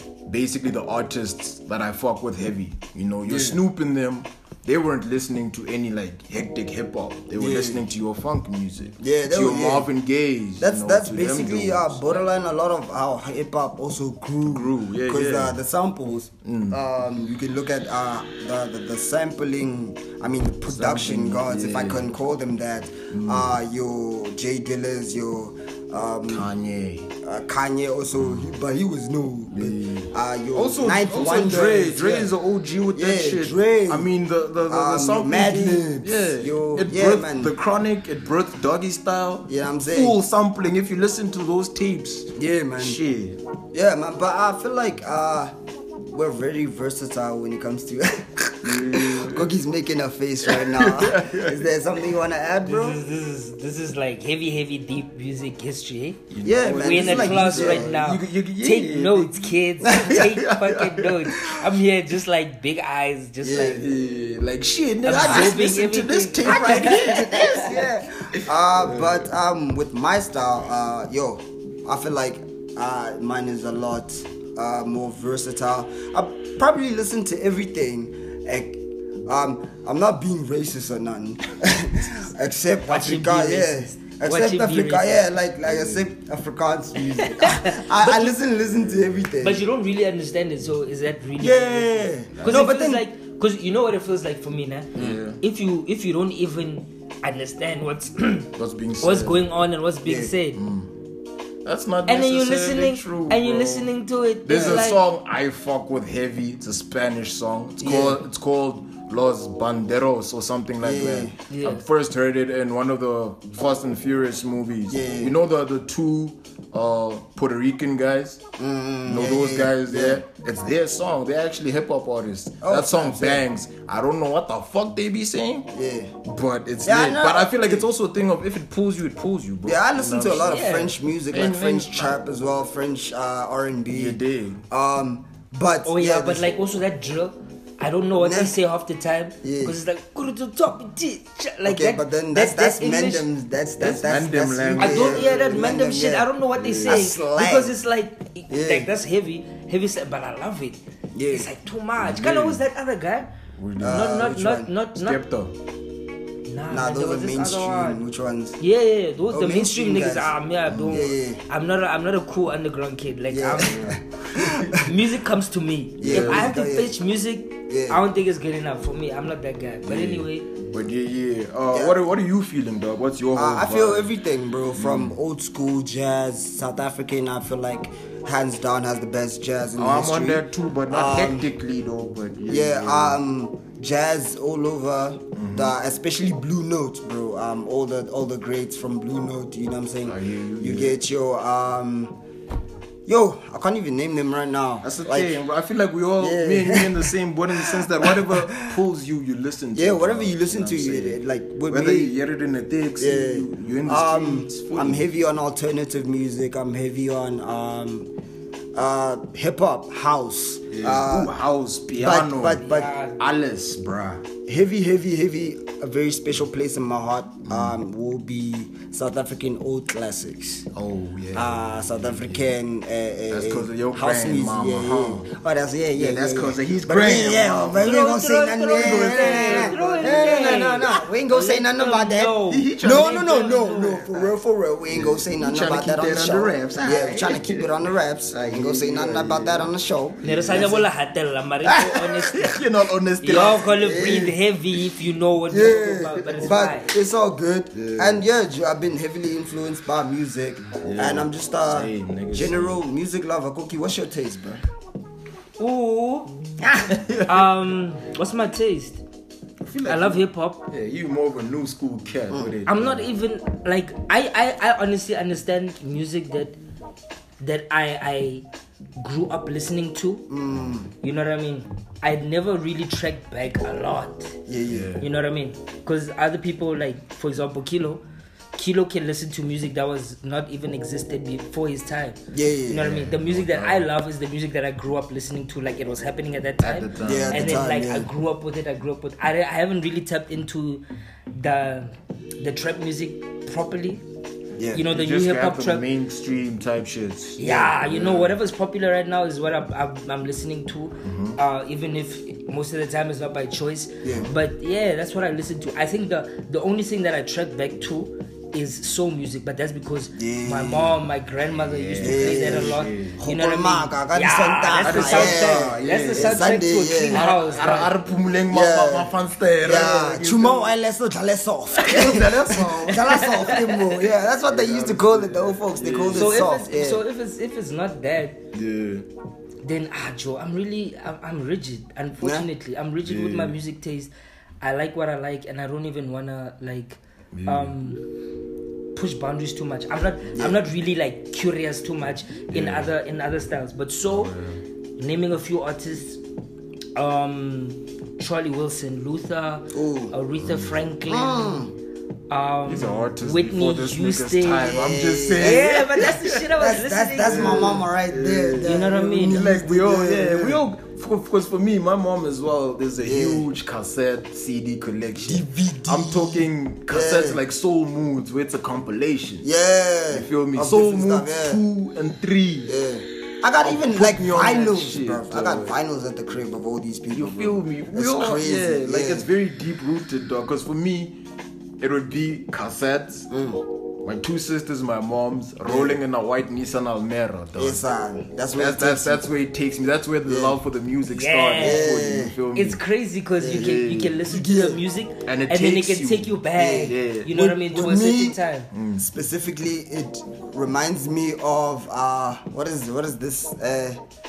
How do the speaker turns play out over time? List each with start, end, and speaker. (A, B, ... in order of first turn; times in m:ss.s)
0:00.3-0:12.1 A
0:03.2-0:03.6 B
0:07.3-0:07.9 B
0:09.0-0:09.9 B
0:10.6-0:26.5 B
0:14.4-0:15.6 A
0:16.4-0:16.8 A
0:20.7-0:22.1 A
0:23.1-0:23.6 A
0:26.3-0:27.1 A
0:27.2-0:32.3 B
0:28.2-0:28.6 A
0:29.5-0:43.4 A
0:32.9-0:34.1 B
0:34.7-0:37.6 B
0:39.5-0:40.2 B
0:42.4-0:43.0 B
0:43.7-0:45.6 B
0:46.1-0:53.0 B
0:48.6-0:49.5 A
0:50.5-0:51.7 A
0:52.6-0:56.2 C
0:56.3-1:01.6 A
0:56.4-0:57.9 B
0:56.7-1:03.8 C
1:03.4-1:03.8 B
1:03.6-1:07.9 A
1:05.0-1:07.6 C
1:05.1-1:05.5 B
1:06.4-1:29.6 B
1:08.8-1:09.2 A
1:22.8-1:25.2 C
1:27.3-1:28.3 C
1:29.4-1:40.6 C
1:31.4-1:33.0 B
1:32.4-1:32.6 A
1:35.0-1:35.2 B
1:35.0-1:35.4 A
1:38.6-1:39.5 A
1:40.0-1:40.3 B
1:40.5-1:40.9 A
1:41.6-1:58.4 A
1:42.1-1:45.0 C
1:44.5-1:44.8 B
1:47.8-1:48.2 B
1:50.8-1:51.4 B
1:51.5-1:51.8 C
1:54.9-1:55.4 B
1:58.6-2:00.2 B
1:59.1-2:05.7 A
2:02.6-2:03.4 B
2:05.7-2:06.1 B
2:06.2-2:12.2 A
2:06.8-2:07.9 B
2:09.7-2:16.5 B
2:10.4-2:11.0 C
2:13.9-2:14.6 A
2:15.8-2:23.3 C
2:18.2-2:18.6 B
2:19.4-2:19.8 B
2:21.6-2:26.3 B
2:23.8-2:25.7 A
2:24.8-2:33.3 C
2:26.6-2:27.0 A
2:26.8-2:27.8 B
2:28.5-2:28.9 B
2:31.1-2:31.5 B
2:32.0-2:32.6 A
2:33.6-2:34.1 A
2:33.8-2:34.7 B
2:33.9-2:35.2 C
2:35.0-2:35.5 A
2:36.5-2:38.0 C
2:36.7-2:38.6 B
2:38.6-2:44.0 C
2:39.3-2:40.4 B
2:40.7-2:41.1 A
2:40.9-2:41.4 B
2:43.3-2:44.8 B
2:43.6-2:44.7 A
2:44.7-2:50.5 C
2:46.0-2:47.0 B
2:46.0-2:46.5 A
2:47.7-2:48.0 B
2:49.8-2:54.1 A
2:51.7-2:52.1 B
2:53.3-3:01.5 B
2:54.8-2:55.2 A
2:59.8-3:03.2 A
3:02.5-3:12.2 B
3:05.4-3:05.8 A
3:10.0-3:11.0 A
3:13.1-3:15.4 B
3:14.8-3:25.1 A
3:16.2-3:18.8 B
3:19.7-3:22.2 B
3:23.0-3:28.1 B
3:28.7-3:31.3 B
3:30.7-3:34.2 A
3:32.0-3:32.9 B
3:32.6-3:33.2 C
3:34.5-3:40.7 B
3:37.5-3:37.8 A
3:40.7-3:42.5 A
3:41.3-4:00.8 B
3:43.3-3:45.3 A
3:46.0-3:48.0 A
3:47.8-3:54.2 C
3:48.7-3:50.9 A
3:52.5-3:53.5 A
3:54.9-3:59.7 A
4:00.2-4:00.8 A
4:00.2-4:02.6 C
4:01.6-4:03.7 A
4:03.2-4:06.9 C
4:03.5-4:04.4 B
4:05.5-4:14.6 B
4:07.7-4:08.2 A
4:10.8-4:12.8 A
4:15.6-4:16.3 C
4:16.9-4:17.4 A
4:17.2-4:19.0 C
4:19.6-4:23.1 A
4:19.8-4:20.7 C
4:22.3-4:22.6 B
4:22.7-4:26.6 C
4:27.4-4:28.5 C
4:29.0-4:30.3 C
4:30.3-4:30.9 B
4:31.0-4:34.4 C
4:34.5-4:34.9 B
4:34.7-4:35.1 A
4:35.0-4:38.0 C
4:38.6-4:54.0 C
4:42.3-4:42.9 B
4:42.8-4:43.9 A
4:46.6-4:47.7 A
4:47.0-4:48.1 B
4:54.6-4:54.9 B
4:54.7-4:55.9 C
4:54.9-4:58.4 A
4:57.4-5:18.0 C
4:57.4-4:57.8 B
5:01.0-5:01.4 A
5:04.0-5:04.3 B
5:10.2-5:11.0 B
5:11.5-5:13.2 A
5:12.0-5:17.3 B
5:14.8-5:16.5 A
5:17.1-5:20.7 A
5:18.4-5:27.0 B
5:21.8-5:26.5 A
5:23.3-5:23.7 C
5:26.1-5:28.4 C
5:28.5-5:29.1 A
5:29.6-5:38.0 C
5:32.2-5:32.5 B
5:33.0-5:33.6 A
5:37.3-5:37.8 A
5:38.9-5:44.4 C
5:40.3-5:40.6 B
5:42.5-5:42.9 A
5:44.1-5:44.6 A
5:45.0-5:46.2 C
5:47.0-5:51.7 C
5:49.7-5:50.2 B
5:50.4-5:50.8 A
5:51.1-5:51.7 B
5:52.3-5:54.8 C
5:52.7-5:56.4 A
5:54.6-6:00.6 B
5:55.4-5:57.8 C
5:57.2-6:09.5 A
5:58.6-5:59.5 C
6:03.0-6:03.5 B
6:05.2-6:07.4 B
6:09.4-6:11.6 B
6:10.1-6:12.7 A
6:12.7-6:19.3 B
6:13.6-6:15.7 A
6:17.1-6:21.2 A
6:21.8-6:23.3 A
6:23.3-6:23.6 B
6:24.0-6:27.8 A
6:25.7-6:26.0 B
6:27.6-6:29.3 B
6:28.6-6:32.8 A
6:30.2-6:30.6 B
6:31.1-6:32.0 C
6:31.6-6:32.4 B
6:32.5-6:38.7 C
6:33.4-6:34.8 B
6:33.5-6:34.2 A
6:35.2-6:37.3 A
6:36.6-6:38.4 B
6:38.7-6:39.0 A
6:39.0-6:44.0 B